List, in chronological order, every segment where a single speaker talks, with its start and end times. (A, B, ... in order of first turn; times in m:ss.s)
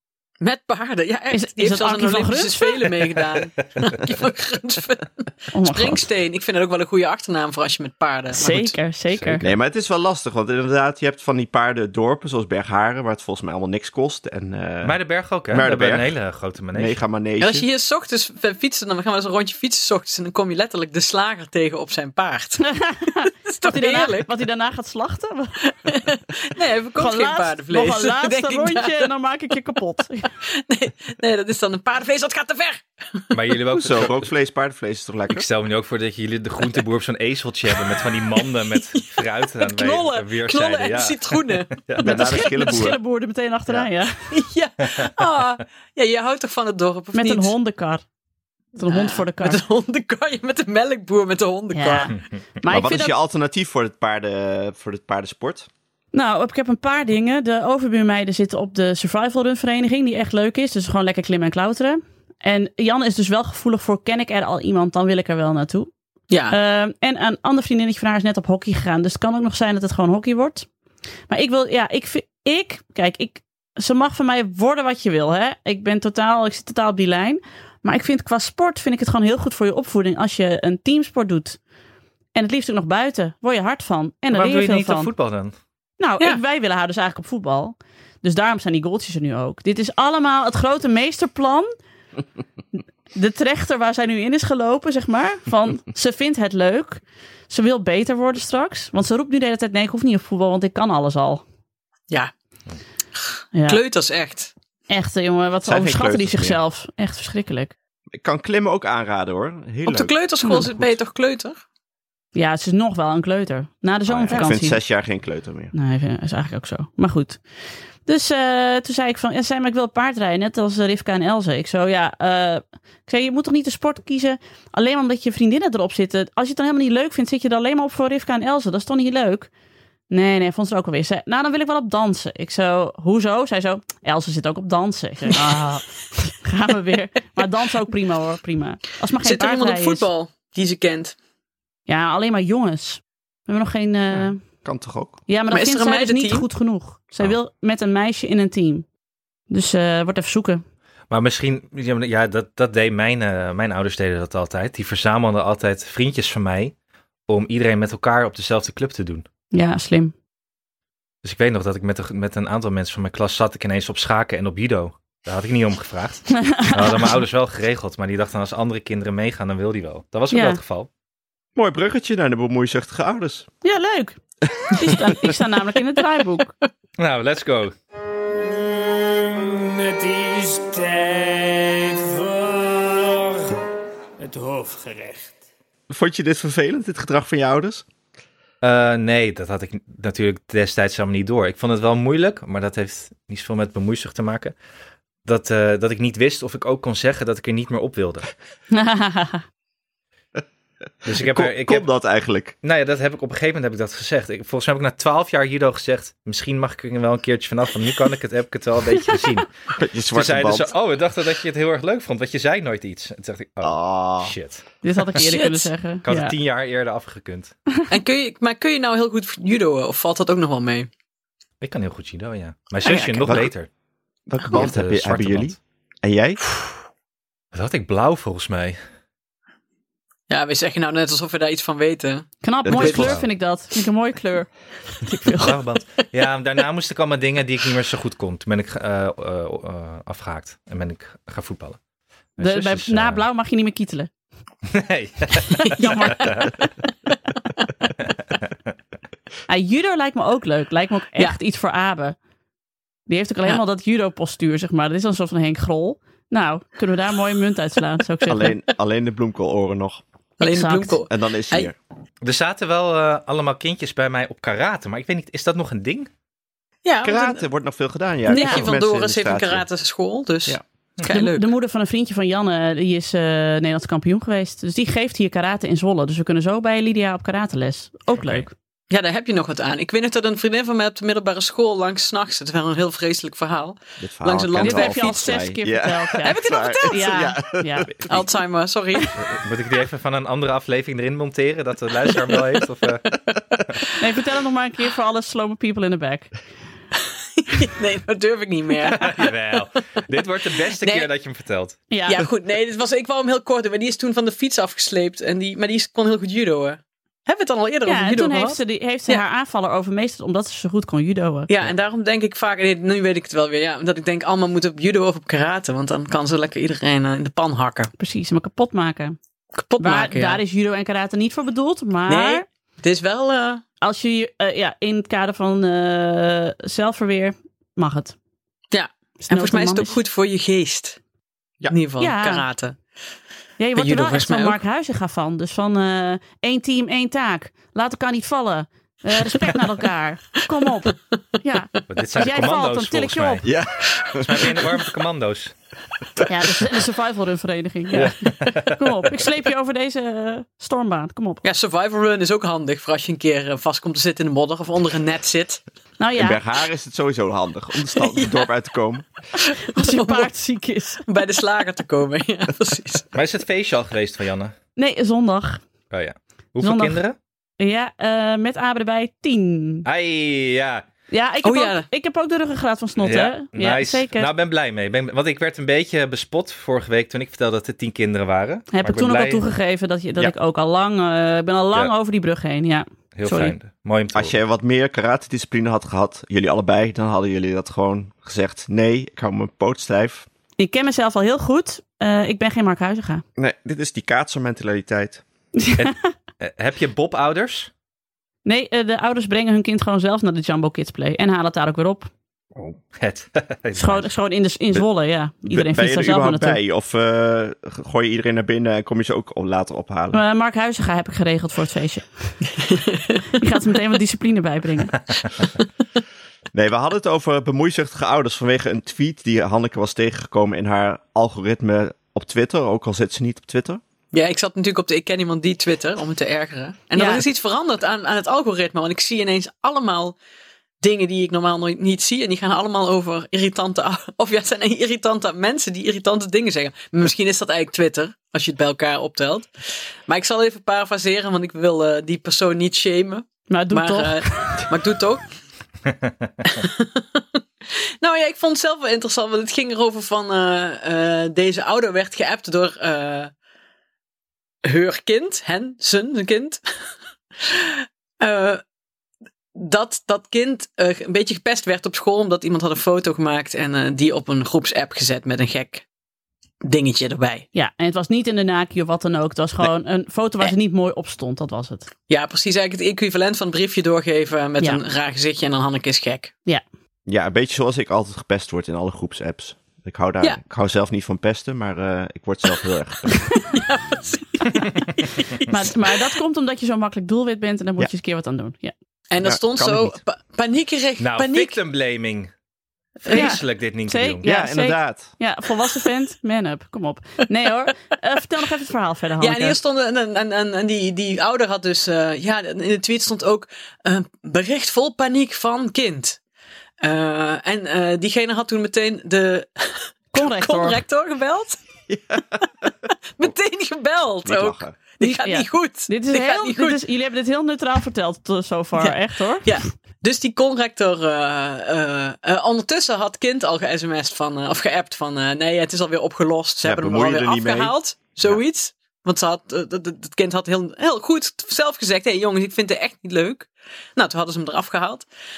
0:00.4-0:08.8 A
0:01.3-0:02.9 B
0:05.5-0:06.1 B
0:08.3-0:09.5 B
0:09.1-0:09.5 C
0:09.4-0:16.1 D
0:14.8-0:17.0 C
0:16.7-0:17.6 D
0:17.4-0:24.3 A
0:22.7-0:25.6 B
0:25.6-0:29.1 A
0:27.0-0:30.3 B
0:30.4-0:33.4 A
0:33.3-0:34.3 C
0:33.7-0:35.4 D
0:35.3-0:42.5 C
0:38.4-0:41.8 A
0:42.0-0:43.0 D
0:42.0-0:44.3 B
0:44.3-0:47.5 A
0:44.8-0:45.1 C
0:47.2-0:48.0 B
0:48.8-0:49.6 B
0:48.9-0:52.1 A
0:51.7-0:53.1 B
0:52.7-0:55.7 D
0:56.1-1:05.9 B
1:06.3-1:06.6 A
1:06.5-1:10.7 B
1:11.3-1:21.6 B
1:22.4-1:25.1 B
1:24.3-1:25.5 C
1:26.0-1:31.7 B
1:33.2-1:41.4 B
1:43.2-1:44.5 A
1:43.6-1:43.8 B
1:44.9-1:47.7 B
1:45.6-1:46.6 D
1:48.2-1:50.2 D
1:49.9-1:51.6 A
1:50.4-1:50.7 B
1:52.4-1:54.8 B
1:54.1-1:55.7 D
1:55.7-1:57.4 B
1:58.1-2:09.5 B
2:10.1-2:20.0 B
2:19.2-2:21.2 A
2:21.9-2:24.4 B
2:24.1-2:25.2 D
2:25.3-2:28.9 B
2:25.5-2:26.5 A
2:29.5-2:30.6 B
2:31.1-2:36.7 C
2:37.3-2:39.2 C
2:39.5-2:40.1 B
2:41.2-2:50.9 C
2:46.4-2:47.2 B
2:50.3-2:50.6 B
2:51.6-2:53.5 D
2:53.6-2:54.2 B
2:54.8-2:56.5 B
2:57.0-2:57.7 C
2:58.4-3:03.6 E
3:04.2-3:05.4 E
3:05.9-3:07.8 D
3:08.6-3:14.6 C
3:15.2-3:18.3 C
3:18.7-3:19.4 B
3:21.0-3:22.6 D
3:21.1-3:21.9 C
3:22.6-3:29.5 C
3:29.8-3:30.7 D
3:30.1-3:35.3 C
3:33.6-3:34.3 D
3:34.8-3:36.3 B
3:35.2-3:35.7 A
3:36.0-3:37.5 C
3:37.9-3:40.9 A
3:41.6-3:43.7 C
3:43.2-3:43.5 D
3:44.3-3:46.4 D
3:44.5-3:45.6 C
3:47.5-3:48.8 C
3:50.3-3:53.1 A
3:52.4-3:55.6 B
3:52.6-3:53.2 D
3:52.9-3:53.3 C
3:55.2-4:01.8 C
4:02.4-4:03.2 C
4:02.4-4:04.1 B
4:04.7-4:06.6 C
4:05.5-4:06.4 A
4:05.8-4:06.7 B
4:08.0-4:08.5 C
4:09.5-4:12.2 B
4:13.1-4:18.6 B
4:18.3-4:20.0 D
4:20.4-4:21.7 A
4:20.4-4:21.0 B
4:21.1-4:21.8 D
4:22.2-4:26.1 C
4:26.8-4:27.4 A
4:27.0-4:29.6 D
4:28.3-4:31.5 A
4:28.3-4:28.7 B
4:31.1-4:38.5 B
4:38.2-4:38.5 C
4:38.9-4:45.4 A
4:44.0-4:48.3 D
4:44.6-4:48.0 B
4:46.2-4:47.3 A
4:48.1-4:49.1 A
4:49.2-4:53.1 C
4:52.3-4:52.5 A
4:54.0-4:56.3 B
4:57.0-4:59.6 A
4:58.8-5:01.8 C
5:00.6-5:01.1 A
5:01.9-5:02.2 B
5:02.1-5:09.2 A
5:07.9-5:11.5 B
5:11.5-5:17.9 A
5:18.0-5:19.2 B
5:19.6-5:20.4 A
5:19.8-5:22.4 B
5:22.1-5:23.6 A
5:23.8-5:28.2 B
5:28.7-5:31.0 A
5:29.3-5:30.0 B
5:31.7-5:32.8 A
5:32.0-5:32.5 B
5:33.6-5:43.5 B
5:33.8-5:34.6 A
5:40.7-5:40.9 A
5:41.9-5:43.5 C
5:43.4-5:44.3 D
5:44.2-5:45.6 C
5:46.3-5:51.4 B
5:47.9-5:49.0 C
5:51.4-5:55.6 A
5:56.0-5:56.4 B
5:56.2-5:59.1 D
5:58.0-5:58.5 A
5:59.4-6:00.3 A
5:59.7-6:01.1 B
6:01.1-6:03.1 A
6:03.1-6:04.6 C
6:04.8-6:05.6 B
6:05.9-6:07.2 C
6:06.6-6:07.0 B
6:07.6-6:09.9 B
6:09.8-6:10.9 C
6:11.1-6:14.3 B
6:11.4-6:11.9 A
6:13.0-6:19.5 C
6:18.7-6:23.6 B
6:23.2-6:24.4 C
6:24.1-6:30.3 D
6:30.6-6:33.2 B
6:33.4-6:35.2 D
6:35.6-6:36.0 B
6:35.8-6:37.7 C
6:38.4-6:42.1 B
6:42.9-6:44.1 C
6:43.8-6:46.6 B
6:45.5-6:50.2 D
6:50.1-6:52.5 B
6:52.7-6:53.2 A
6:53.4-6:55.4 B
6:56.5-7:03.8 D
7:04.1-7:10.2 A
7:07.0-7:07.2 B
7:10.8-7:19.5 A
7:20.1-7:25.3 A
7:23.5-7:24.7 B
7:25.9-7:26.3 C
7:26.4-7:27.2 A
7:28.0-7:33.3 A
7:34.6-7:36.6 A
7:37.4-7:38.6 A
7:39.6-7:45.8 A
7:46.6-7:47.5 A
7:47.6-7:51.9 B
7:52.1-7:56.3 A
7:57.1-8:03.1 D
8:03.5-8:06.1 A
8:05.5-8:08.7 B
8:09.1-8:11.6 A
8:09.2-8:10.0 D
8:11.0-8:12.3 C
8:13.0-8:14.3 C
8:13.0-8:13.4 A
8:13.1-8:19.6 B
8:14.2-8:15.2 D
8:19.2-8:26.2 A
8:26.8-8:31.6 A
8:30.1-8:30.8 B
8:31.9-8:32.4 D
8:33.2-8:36.8 A
8:34.2-8:34.8 D
8:35.0-8:39.6 B
8:38.8-8:55.1 A
8:46.6-8:47.7 D